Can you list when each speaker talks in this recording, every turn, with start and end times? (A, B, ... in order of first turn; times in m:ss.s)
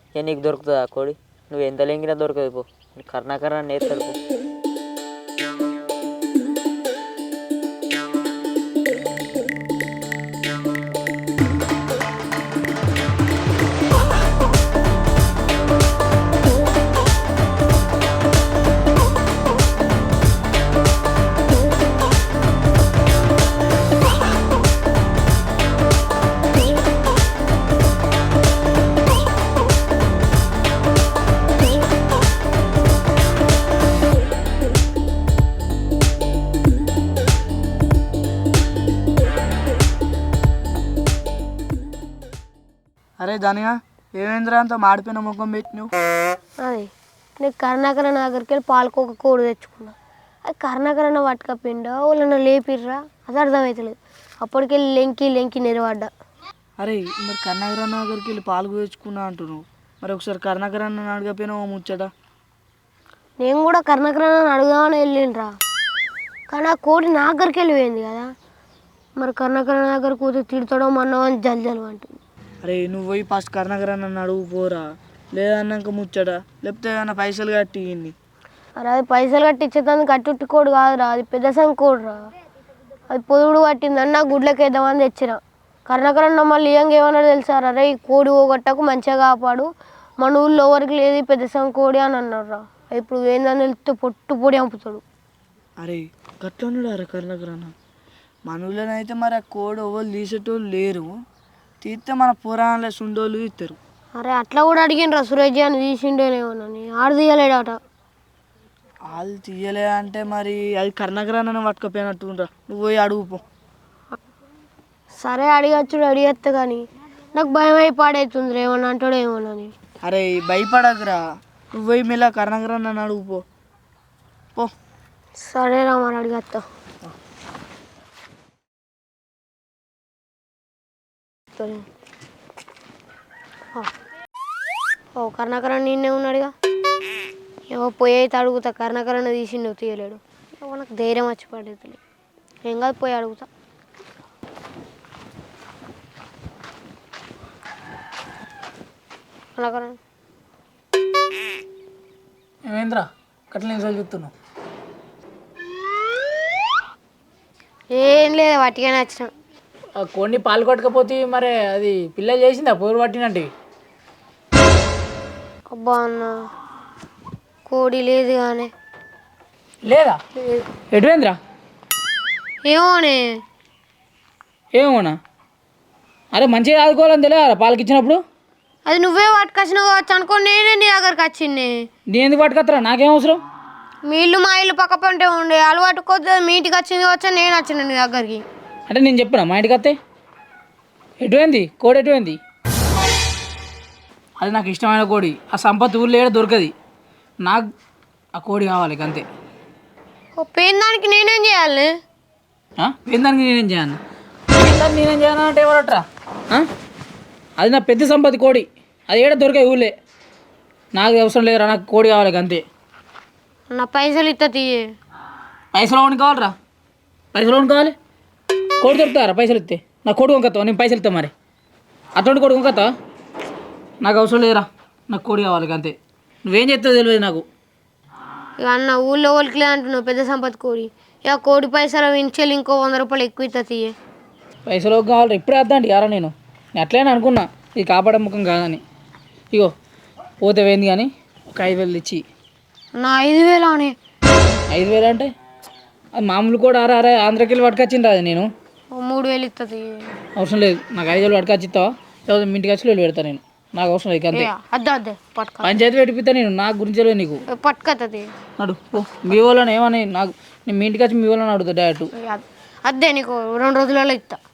0:00.2-0:04.1 A
0:43.2-0:45.9 B
0:46.6-0:46.9 C
0:47.4-0:56.1 C
0:56.8-1:02.1 B
1:03.4-1:05.5 C
1:06.5-1:08.3 C
1:09.2-1:12.1 C
1:12.6-1:18.1 B
1:18.8-1:22.2 C
1:23.1-1:29.7 C
1:30.2-1:35.0 C
1:35.8-1:37.7 B
1:38.5-1:41.1 B
1:41.8-1:43.8 B
1:44.2-1:47.8 C
1:49.1-1:53.4 B
1:55.2-1:56.8 C
1:57.3-1:59.7 C
2:00.0-2:01.2 B
2:01.8-2:03.4 B
2:05.4-2:06.6 C
2:11.6-2:11.8 C
2:15.2-2:16.5 C
2:17.7-2:22.0 C
2:22.6-2:23.5 C
2:29.6-2:30.0 C
2:32.7-2:34.3 D
2:37.9-2:39.3 C
2:40.0-2:43.5 D
2:45.7-2:46.3 C
2:47.7-2:48.7 C
2:49.8-2:50.2 D
2:50.4-2:50.6 C
2:50.9-2:51.4 D
2:52.7-2:53.3 C
2:54.7-2:55.2 D
2:56.3-2:58.2 D
2:58.9-3:01.8 C
3:02.1-3:03.4 D
3:04.1-3:08.4 C
3:08.9-3:10.0 D
3:11.2-3:12.4 D
3:14.4-3:16.7 D
3:17.4-3:17.7 D
3:18.4-3:19.3 D
3:20.4-3:21.9 C
3:22.8-3:24.0 D
3:24.5-3:26.7 D
3:27.6-3:29.9 D
3:30.9-3:32.6 D
3:33.7-3:34.8 C
3:35.7-3:36.5 D
3:37.3-3:38.0 D
3:38.8-3:41.3 D
3:42.2-3:42.9 D
3:44.0-3:46.0 D
3:46.5-3:47.4 D
3:48.6-3:53.9 C
3:54.7-3:58.8 D
4:00.4-4:02.2 D
4:03.0-4:04.0 C
4:04.7-4:05.3 D
4:06.2-4:08.5 D
4:08.9-4:10.2 C
4:10.4-4:14.5 D
4:14.3-4:15.8 C
4:15.6-4:17.4 D
4:17.5-4:18.3 C
4:18.6-4:22.1 D
4:22.2-4:24.4 C